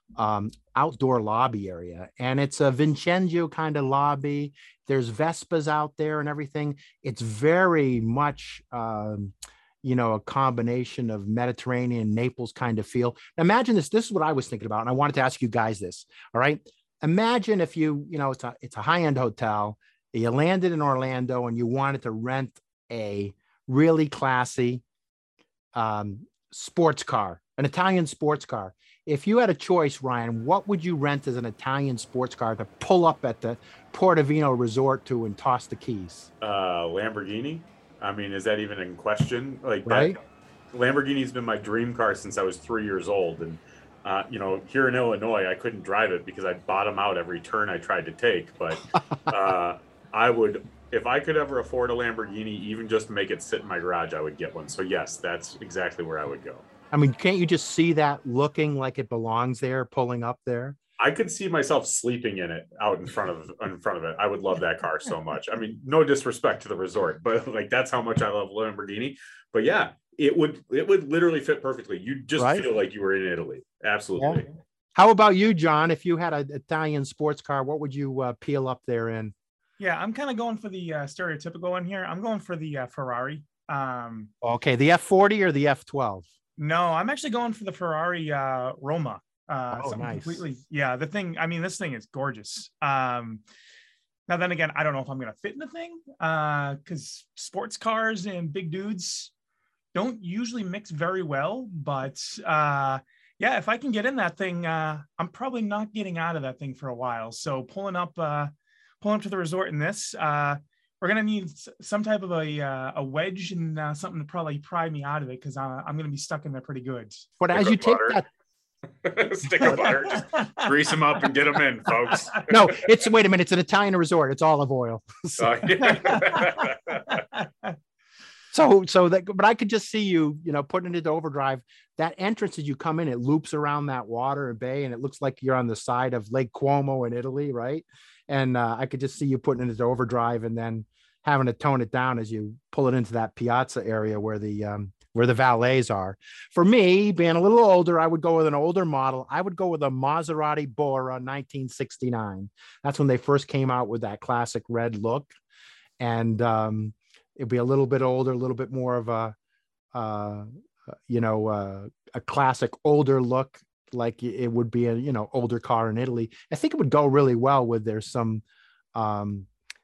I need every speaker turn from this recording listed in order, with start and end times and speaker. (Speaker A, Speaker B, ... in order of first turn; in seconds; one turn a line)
Speaker A: 0.2-24.8
Speaker A: 25.7-36.3
Speaker B: 36.4-40.2
Speaker A: 39.9-40.2
Speaker B: 40.7-56.6
Speaker A: 56.9-60.8
Speaker B: 61.0-74.5
Speaker A: 72.4-72.6
Speaker A: 74.9-79.3
Speaker C: 79.8-84.3
Speaker A: 84.4-86.3
Speaker C: 86.6-93.4
Speaker A: 89.7-90.4
Speaker C: 94.3-99.3
Speaker C: 99.9-117.2
Speaker A: 117.4-118.2
Speaker B: 117.5-118.2
Speaker B: 119.0-122.7
Speaker C: 120.4-120.6
Speaker A: 122.5-126.3
Speaker B: 125.4-127.2
Speaker C: 126.1-126.3
Speaker A: 128.5-155.3
Speaker A: 156.0-159.3
Speaker A: 159.9-168.4
Speaker A: 168.9-169.5